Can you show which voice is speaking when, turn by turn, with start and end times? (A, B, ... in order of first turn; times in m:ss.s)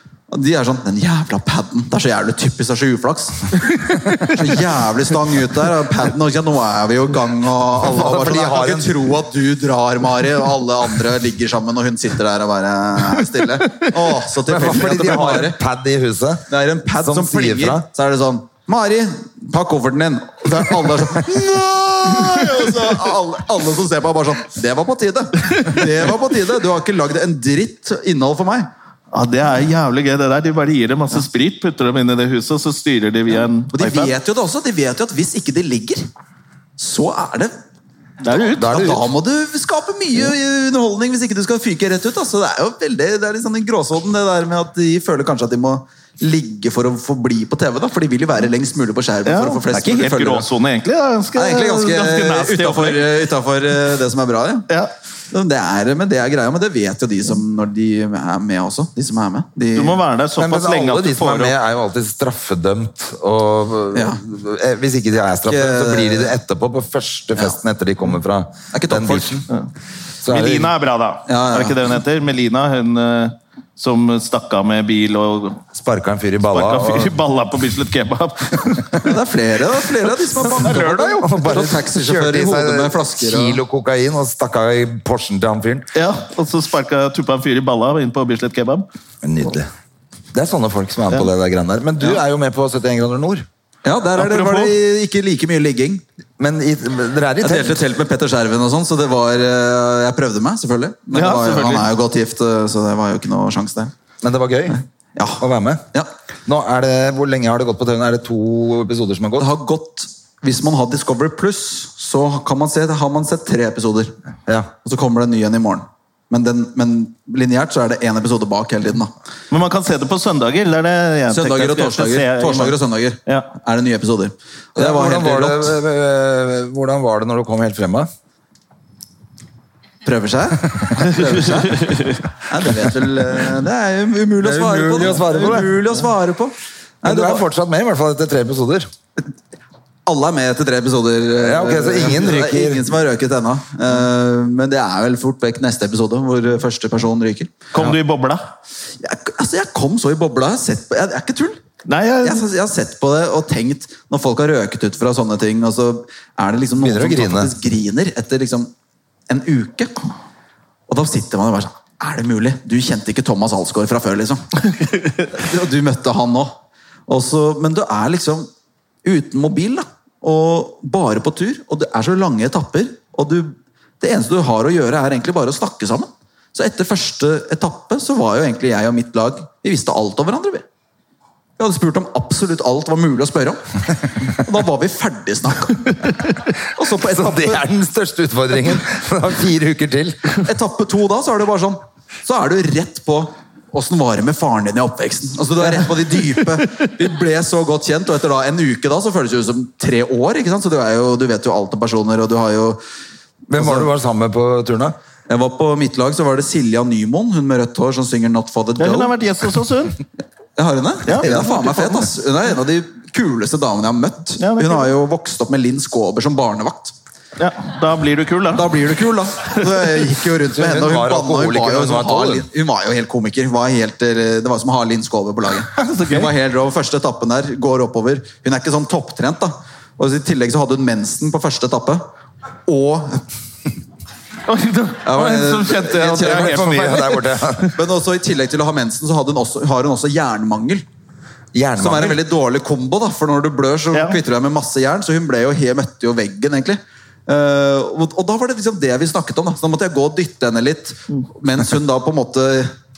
0:00.3-0:03.5 A
0:04.2-0:15.6 A
0:07.8-0:08.9 B
0:14.4-0:16.5 B
0:16.5-0:28.7 A
0:17.0-0:17.8 B
0:29.1-0:34.1 C
0:33.7-0:36.0 A
0:36.8-0:37.5 A
0:38.2-0:38.9 C
0:38.3-0:50.4 A
0:38.6-0:39.0 B
0:49.2-0:53.2 C
0:51.3-0:54.7 A
0:55.3-1:00.0 A
0:59.7-1:01.5 C
1:00.4-1:09.4 B
1:03.9-1:04.2 A
1:05.5-1:06.4 A
1:08.7-1:09.4 A
1:10.2-1:10.7 B
1:10.3-1:15.6 C
1:11.3-1:11.8 A
1:15.7-1:17.1 B
1:16.5-1:19.1 C
1:19.0-1:23.6 A
1:20.3-1:21.3 C
1:20.8-1:25.9 B
1:25.9-1:28.8 C
1:29.2-1:29.7 B
1:30.3-1:33.5 B
1:33.8-1:36.0 A
1:34.2-1:34.7 C
1:36.4-1:37.8 B
1:37.4-1:43.9 A
1:41.1-1:41.9 C
1:44.2-1:44.8 B
1:44.7-1:46.1 A
1:45.4-1:45.8 B
1:46.4-1:49.5 B
1:49.4-1:54.1 A
1:54.8-1:59.1 A
1:59.5-2:03.5 C
2:01.3-2:05.8 A
2:04.7-2:08.1 B
2:10.0-2:17.4 A
2:11.0-2:12.2 C
2:14.4-2:15.8 B
2:17.0-2:18.9 B
2:20.0-2:27.6 A
2:21.4-2:22.9 B
2:27.7-2:28.5 C
2:29.0-2:31.6 A
2:31.9-2:32.4 C
2:32.2-2:38.7 A
2:36.8-2:37.5 B
2:39.3-2:40.0 A
2:40.9-2:44.4 A
2:45.3-2:46.6 A
2:47.1-2:48.5 A
2:49.0-3:00.6 A
3:01.6-3:03.6 A
3:04.2-3:06.0 A
3:06.7-3:07.6 A
3:07.0-3:10.3 B
3:10.4-3:22.8 A
3:23.5-3:25.0 B
3:23.5-3:23.9 A
3:25.3-3:29.1 A
3:28.8-3:30.0 C
3:30.6-3:36.9 A
3:31.0-3:32.0 C
3:34.4-3:34.9 C
3:37.4-3:38.9 C
3:38.5-3:52.0 A
3:40.4-3:42.5 B
3:45.7-3:46.3 C
3:52.7-3:53.2 A
3:54.5-3:57.6 C
3:55.0-3:56.7 A
3:56.2-3:57.7 B
3:57.7-4:00.8 A
4:01.5-4:02.2 B
4:01.8-4:12.7 A
4:03.9-4:04.2 C